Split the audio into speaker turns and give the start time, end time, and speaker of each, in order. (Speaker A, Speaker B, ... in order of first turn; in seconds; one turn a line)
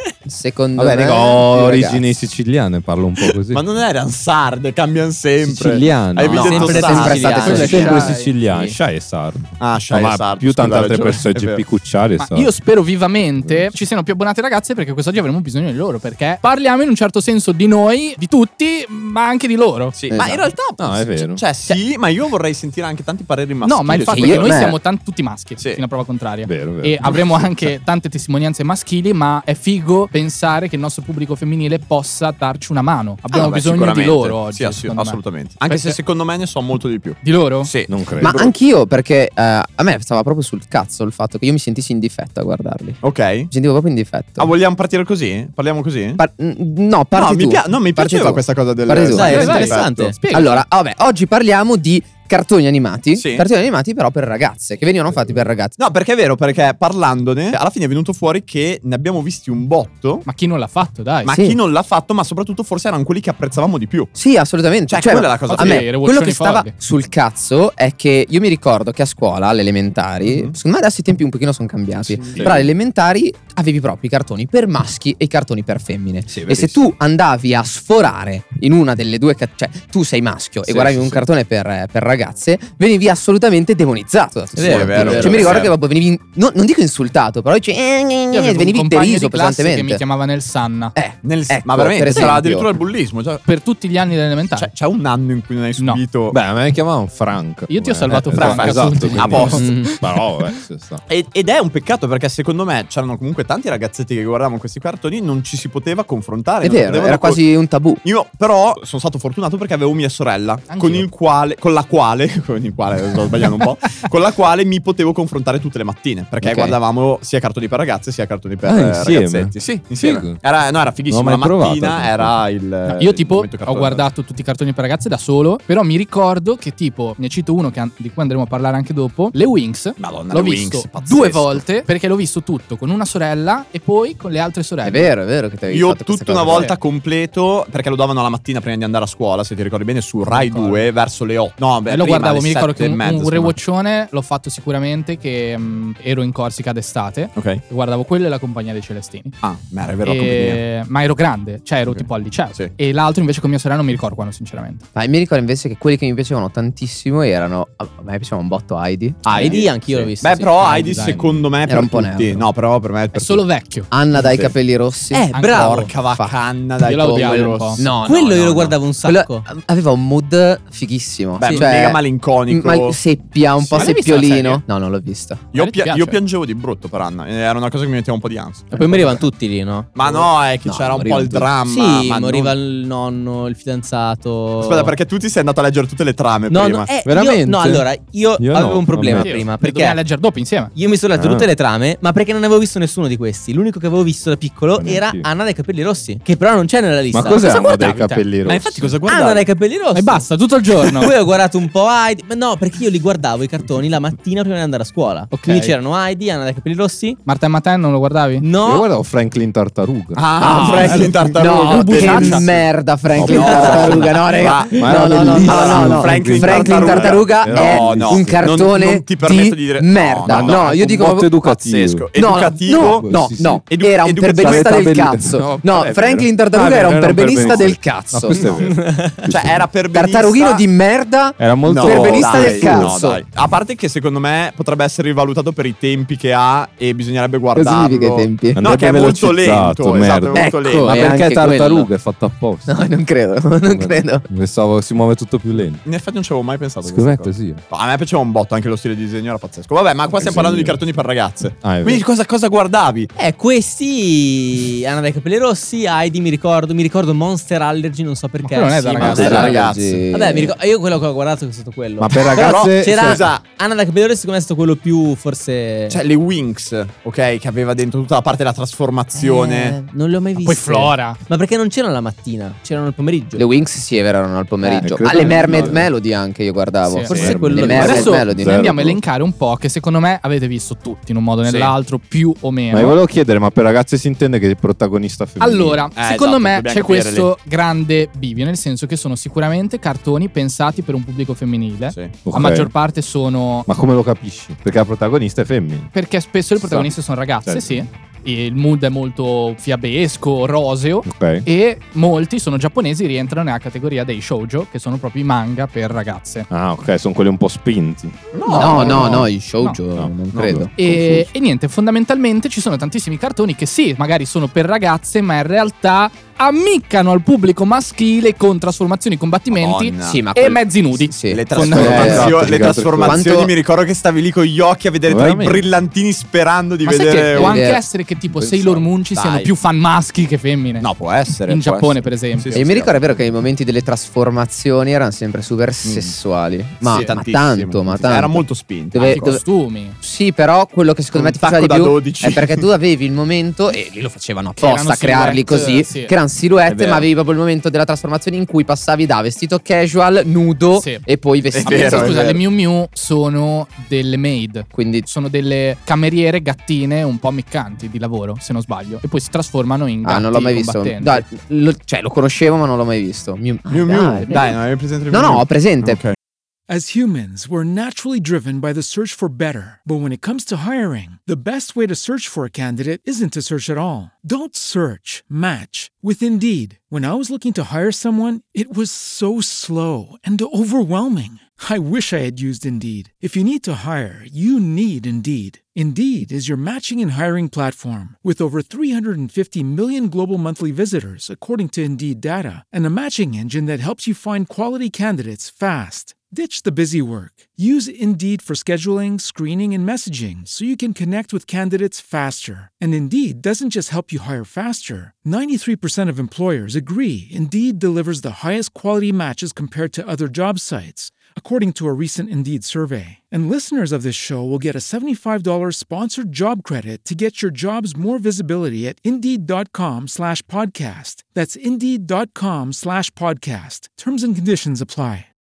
Speaker A: 0.3-2.0
Speaker B: 0.8-3.6
Speaker C: 3.2-7.6
Speaker B: 5.4-6.8
Speaker A: 6.3-8.0
Speaker D: 6.4-8.8
Speaker E: 7.4-8.3
Speaker B: 7.5-12.5
Speaker C: 9.6-11.6
Speaker E: 12.2-19.9
Speaker B: 13.4-13.8
Speaker C: 19.9-24.6
Speaker A: 20.1-20.5
Speaker B: 20.8-21.4
Speaker E: 23.6-36.0
Speaker A: 24.1-24.8
Speaker B: 26.5-27.7
Speaker C: 33.3-38.5
Speaker E: 37.2-37.7
Speaker B: 37.9-38.4
Speaker A: 38.2-43.0
Speaker C: 43.0-43.5
Speaker A: 43.5-44.5
Speaker C: 44.4-46.2
Speaker A: 46.2-49.6
Speaker C: 47.1-50.1
Speaker D: 49.0-50.2
Speaker E: 49.2-50.6
Speaker A: 50.3-55.8
Speaker C: 53.1-53.5
Speaker C: 55.8-60.2
Speaker E: 60.3-61.3
Speaker C: 61.2-64.1
Speaker A: 61.3-61.6
Speaker A: 64.2-90.0
Speaker C: 64.9-65.9
Speaker E: 65.5-66.7
Speaker C: 70.2-70.6
Speaker C: 72.3-72.7
Speaker B: 72.3-72.6
Speaker B: 76.3-76.8
Speaker C: 80.7-81.2
Speaker D: 84.6-85.5
Speaker C: 84.6-85.7
Speaker E: 88.3-90.9
Speaker A: 91.0-92.7
Speaker C: 91.2-93.4
Speaker E: 93.5-94.7
Speaker C: 94.6-96.4
Speaker B: 96.3-101.0
Speaker E: 97.7-99.8
Speaker C: 98.3-99.7
Speaker D: 99.6-100.0
Speaker C: 101.1-107.4
Speaker A: 106.6-108.0
Speaker C: 108.0-124.1
Speaker E: 110.7-111.1
Speaker A: 116.4-116.8
Speaker B: 118.7-120.4
Speaker B: 121.1-122.4
Speaker E: 122.9-135.1
Speaker C: 130.0-131.7
Speaker A: 134.8-136.7
Speaker C: 135.7-143.6
Speaker E: 140.3-140.9
Speaker E: 141.9-149.4
Speaker C: 147.4-147.6
Speaker C: 149.4-150.6
Speaker E: 150.1-154.8
Speaker C: 151.9-152.7
Speaker A: 154.9-159.6
Speaker C: 159.3-163.4
Speaker D: 159.3-160.7
Speaker E: 160.6-161.4
Speaker A: 161.7-162.5
Speaker E: 163.1-163.9
Speaker A: 163.9-166.4
Speaker C: 164.2-164.5
Speaker D: 165.1-165.9
Speaker E: 165.3-165.8
Speaker C: 165.6-168.0
Speaker E: 166.8-167.8
Speaker A: 167.8-175.5
Speaker D: 168.0-169.5
Speaker C: 171.4-173.0
Speaker D: 171.4-171.7
Speaker E: 173.8-174.6
Speaker C: 175.5-179.3
Speaker E: 175.5-176.2
Speaker D: 178.7-180.3
Speaker C: 179.9-182.6
Speaker A: 180.7-181.5
Speaker D: 181.6-185.0
Speaker C: 184.6-186.9
Speaker D: 186.5-190.0
Speaker B: 187.0-189.3
Speaker E: 189.1-190.7
Speaker D: 190.8-197.7
Speaker B: 191.1-191.5
Speaker B: 194.8-195.3
Speaker B: 197.1-198.9
Speaker E: 197.3-198.2
Speaker C: 198.4-199.5
Speaker D: 199.1-207.2
Speaker E: 199.9-201.1
Speaker E: 205.3-205.7
Speaker E: 207.3-208.5
Speaker D: 208.4-208.9
Speaker B: 208.6-210.3
Speaker C: 210.2-212.5
Speaker A: 210.4-221.3
Speaker E: 210.6-212.5
Speaker B: 213.2-213.7
Speaker C: 213.3-220.8
Speaker D: 213.3-214.4
Speaker B: 214.8-218.7
Speaker B: 220.3-222.1
Speaker C: 221.4-224.9
Speaker A: 222.2-228.5
Speaker B: 222.7-223.7
Speaker B: 224.3-229.4
Speaker D: 228.5-229.3
Speaker C: 229.3-230.6
Speaker A: 229.9-233.2
Speaker B: 231.4-232.9
Speaker C: 231.7-241.1
Speaker A: 237.6-238.6
Speaker B: 238.6-242.7
Speaker A: 240.3-241.9
Speaker A: 242.7-244.2
Speaker B: 243.7-245.8
Speaker C: 245.8-253.1
Speaker B: 246.8-247.6
Speaker B: 250.2-250.8
Speaker B: 251.6-252.0
Speaker D: 253.2-266.0
Speaker E: 258.4-259.5
Speaker C: 259.0-260.0
Speaker A: 259.1-260.6
Speaker B: 262.0-263.2
Speaker C: 262.4-263.4
Speaker C: 265.9-269.8
Speaker D: 269.2-273.4
Speaker E: 270.4-271.2
Speaker A: 273.4-278.6
Speaker D: 274.6-275.7
Speaker B: 274.8-275.9
Speaker E: 276.9-283.0
Speaker D: 277.1-278.2
Speaker B: 277.1-279.0
Speaker C: 281.4-281.7
Speaker B: 282.7-285.9
Speaker E: 285.4-293.7
Speaker C: 286.0-287.3
Speaker B: 292.3-292.7
Speaker B: 293.7-295.9
Speaker E: 295.9-306.5
Speaker B: 296.6-296.9
Speaker B: 297.5-297.9
Speaker B: 301.1-301.4
Speaker B: 306.5-309.3
Speaker C: 308.3-309.2
Speaker A: 308.5-311.2
Speaker B: 310.0-311.1
Speaker E: 310.8-322.2
Speaker C: 319.5-320.3
Speaker A: 320.0-323.5
Speaker C: 321.3-327.6
Speaker B: 321.6-323.3
Speaker B: 325.1-325.7
Speaker E: 326.9-330.9
Speaker A: 327.4-327.8
Speaker B: 328.3-328.9
Speaker C: 329.1-329.5
Speaker C: 330.8-333.2
Speaker E: 331.5-332.6
Speaker A: 332.5-339.4
Speaker C: 335.8-336.1
Speaker C: 336.8-339.4
Speaker E: 339.0-340.0
Speaker A: 340.0-352.2
Speaker C: 341.1-342.7
Speaker E: 344.6-346.1
Speaker C: 346.7-347.1
Speaker E: 350.7-351.1
Speaker C: 351.5-352.4
Speaker E: 351.6-361.2
Speaker A: 354.7-355.1
Speaker A: 360.0-364.5
Speaker C: 363.7-366.1
Speaker A: 365.1-366.0
Speaker F: 366.7-425.3